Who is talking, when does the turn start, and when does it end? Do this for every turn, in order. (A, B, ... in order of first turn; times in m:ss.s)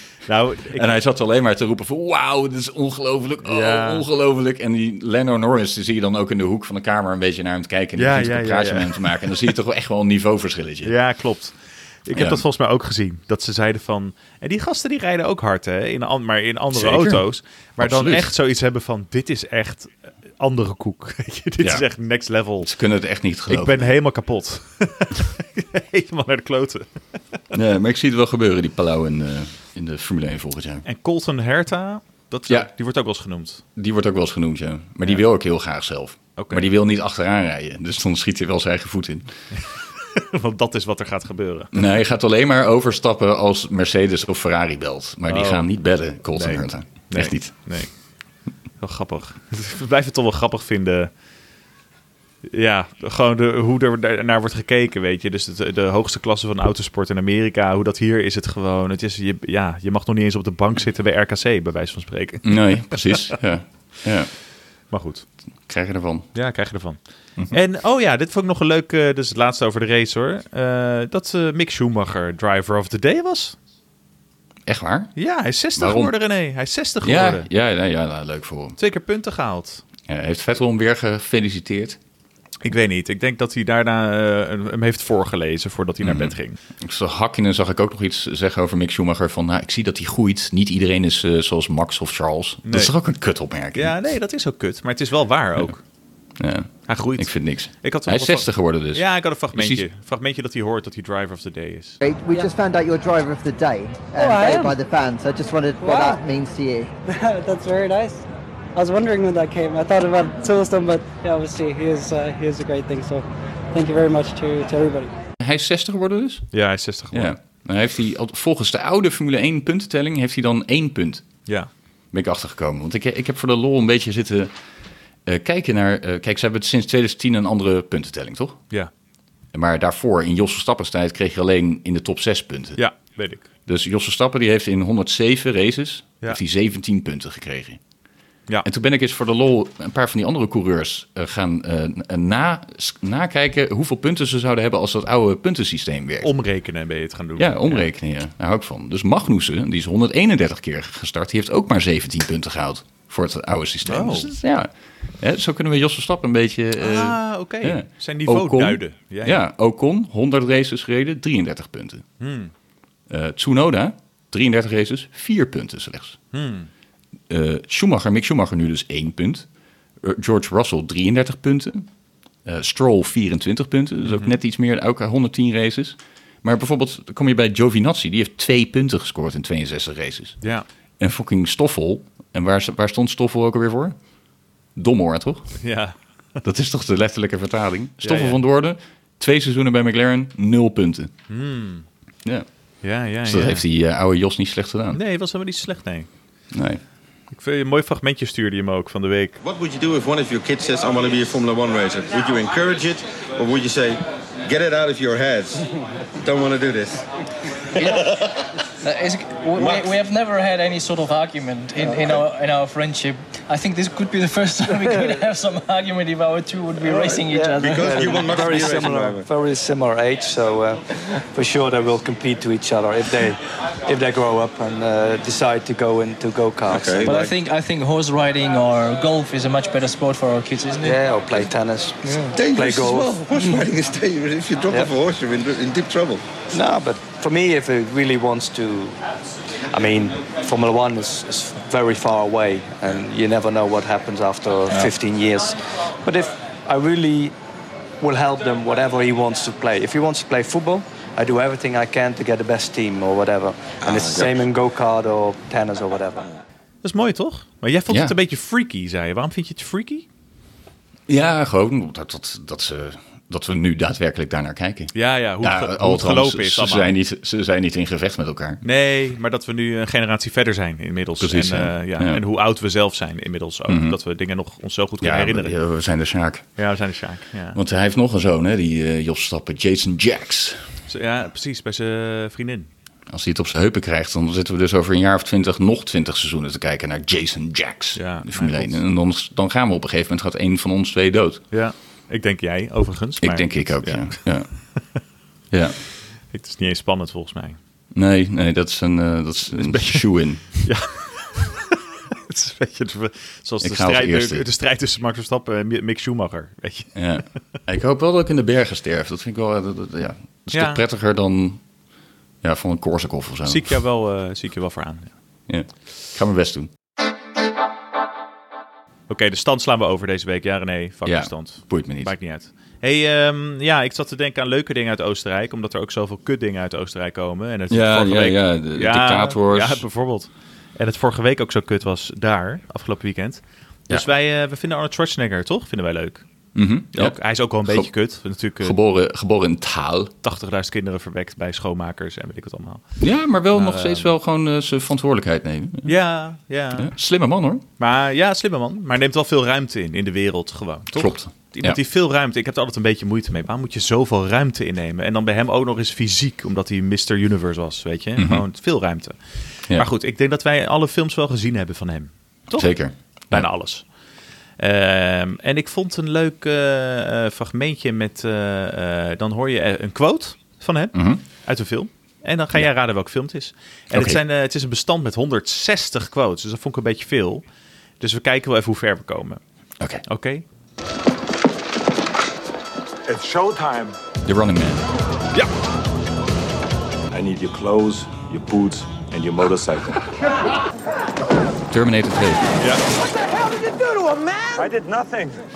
0:00.2-0:01.0 A
0:00.7-0:11.0 B
0:03.4-0:04.0 A
0:08.0-0:09.5 A
0:10.8-0:22.7 A
0:12.1-0:12.4 B
0:16.7-0:17.3 B
0:17.8-0:18.3 B
0:22.6-0:23.9 B
0:23.5-0:26.9 A
0:27.5-0:30.8 B
0:30.8-0:33.6 A
0:33.8-0:39.3 B
0:36.4-0:36.7 A
0:39.6-0:41.8 A
0:41.7-0:47.8 B
0:45.3-0:48.0 A
0:48.8-0:51.1 A
0:52.5-1:03.4 A
1:02.4-1:04.3 B
1:04.9-1:05.3 A
1:05.7-1:06.3 B
1:06.3-1:13.6 A
1:14.7-1:15.2 B
1:15.2-1:17.5 A
1:15.8-1:16.2 B
1:17.0-1:18.8 B
1:18.8-1:19.8 A
1:20.1-1:22.0 B
1:22.6-1:26.6 A
1:26.0-1:34.0 B
1:32.7-1:32.9 A
1:33.7-1:35.8 A
1:36.4-1:39.9 B
1:36.9-1:42.0 A
1:42.0-1:46.9 C
1:44.2-1:44.8 D
1:45.8-1:46.2 D
1:47.1-1:48.2 D
1:48.8-1:55.1 D
1:55.4-1:56.5 B
1:56.5-1:57.4 A
1:57.1-2:01.3 B
2:02.1-2:04.6 B
2:05.2-2:08.7 B
2:09.5-2:12.8 B
2:12.8-2:13.4 A
2:13.7-2:17.8 B
2:18.6-2:26.3 B
2:26.2-2:27.9 A
2:27.4-2:42.1 B
2:33.8-2:34.4 A
2:36.8-2:39.4 A
2:42.2-2:42.5 A
2:43.1-2:46.2 B
2:46.3-2:46.7 A
2:47.3-2:49.5 B
2:50.0-2:51.9 B
2:52.4-3:00.4 B
2:54.0-2:54.3 A
3:00.4-3:00.7 A
3:01.0-3:04.0 B
3:04.8-3:05.6 B
3:05.6-3:06.0 A
3:06.4-3:11.1 B
3:08.0-3:08.4 A
3:11.3-3:11.9 A
3:12.8-3:13.6 A
3:13.2-3:15.0 B
3:14.9-3:16.1 A
3:16.5-3:16.8 B
3:17.3-3:19.4 A
3:19.4-3:25.6 E
3:26.2-3:27.0 E
3:27.8-3:28.1 E
3:27.8-3:28.2 F
3:28.8-3:38.3 F
3:36.9-3:39.3 E
3:37.3-3:47.3 G
3:46.7-3:47.3 E
3:47.0-3:51.0 F
3:50.8-3:53.2 G
3:52.3-3:56.2 E
3:56.5-3:59.0 G
3:59.7-4:07.4 G
4:08.0-4:16.3 G
4:14.0-4:14.3 E
4:16.8-4:20.1 A
4:17.9-4:18.2 B
4:21.1-4:28.6 B
4:24.9-4:27.0 A
4:28.6-4:35.6 A
4:31.2-4:32.2 B
4:33.7-4:34.0 B
4:35.0-4:36.5 B
4:36.6-4:37.6 A
4:37.5-4:40.7 B
4:40.9-4:42.7 A
4:43.1-4:51.4 B
4:48.0-4:48.8 A
4:51.5-4:55.0 A
4:53.2-4:54.8 B
4:55.5-4:55.8 B
4:56.3-4:57.6 A
4:57.9-5:00.7 B
4:59.5-5:07.0 A
5:03.6-5:04.4 B
5:07.0-5:11.6 B
5:10.5-5:10.8 A
5:12.4-5:13.7 B
5:13.5-5:15.1 A
5:15.5-5:16.7 B
5:19.1-5:36.2 A
5:21.0-5:22.1 B
5:27.7-5:29.8 B
5:36.6-5:37.9 B
5:36.9-5:38.8 A
5:38.6-5:40.1 B
5:40.2-5:42.8 A
5:43.0-5:46.0 B
5:43.5-5:44.1 A
5:45.8-5:46.9 A
5:46.7-5:47.6 B
5:47.8-6:03.9 A
5:50.9-5:51.8 B
5:58.2-5:58.4 B
6:02.5-6:03.5 B
6:04.6-6:17.4 A
6:10.9-6:11.2 B
6:13.9-6:14.2 B
6:18.0-6:19.4 A
6:20.1-6:20.4 A
6:23.1-6:24.0 H
6:24.2-6:24.9 B
6:27.1-6:30.0 H
6:31.7-6:32.4 B
6:34.0-6:35.4 H